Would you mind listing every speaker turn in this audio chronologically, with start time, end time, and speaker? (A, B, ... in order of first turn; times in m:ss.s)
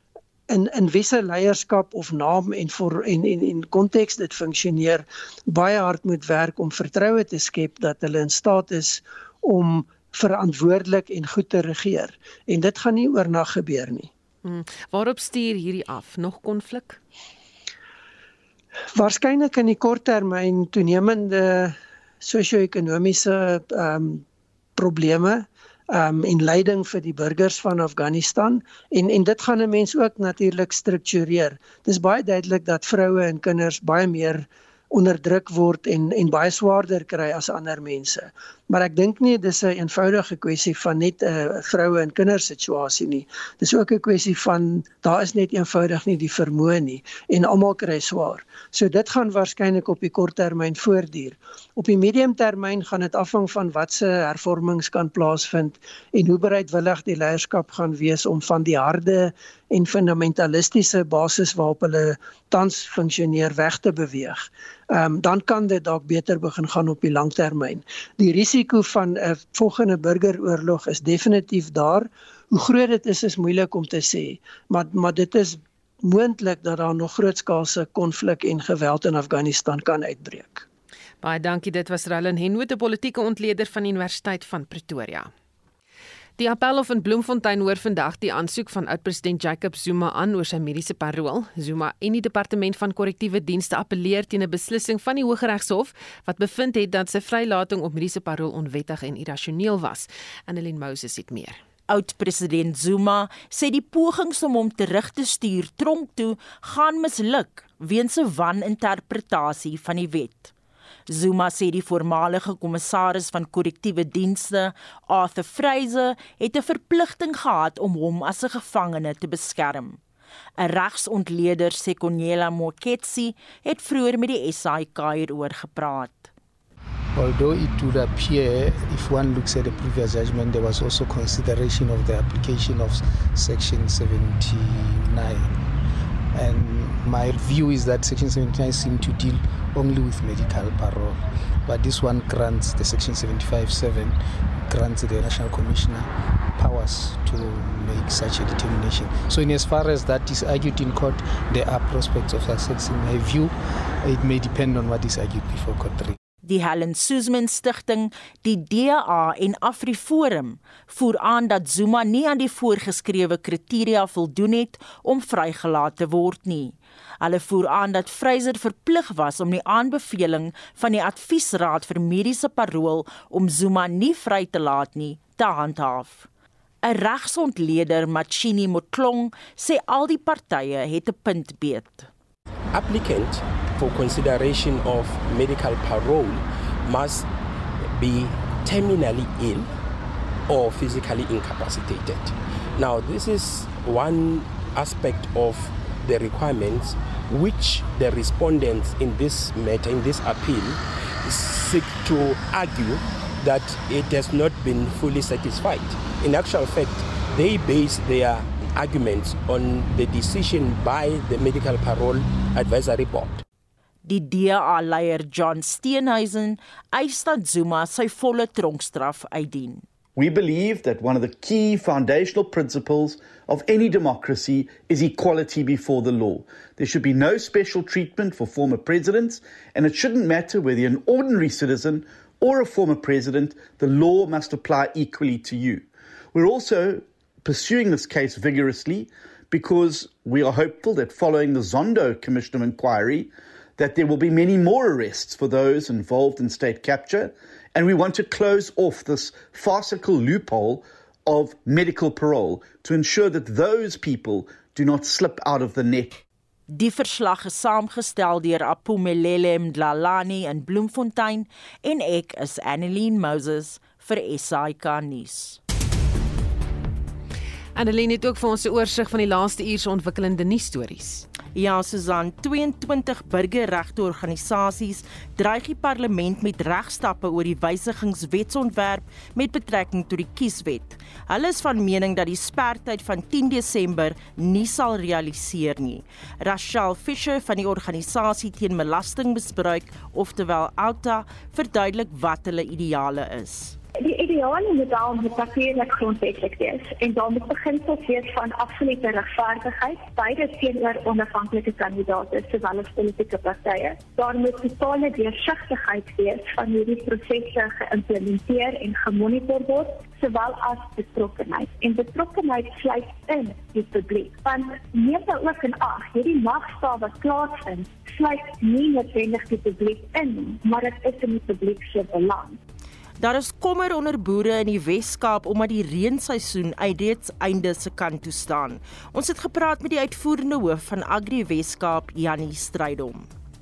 0:00.5-0:14.1 A
0:14.4-0:17.0 B
0:19.0-0:24.2 A
0:24.8-1:20.7 A
1:21.2-1:25.3 B
1:26.4-1:41.6 B
1:41.9-1:50.5 C
1:51.1-2:00.0 C
2:00.6-2:06.3 C
2:07.2-2:15.5 D
2:16.3-2:24.2 D
2:24.7-2:36.2 D
2:36.4-2:56.3 C
2:56.8-3:02.1 C
3:02.7-3:07.3 E
3:08.0-3:09.7 E
3:10.5-3:33.4 E
3:34.0-3:39.8 C
3:40.2-4:16.2 F
4:16.7-4:25.6 C
4:27.8-4:31.2 B
4:31.5-4:53.8 C
4:54.0-5:22.6 G
5:23.2-5:33.3 C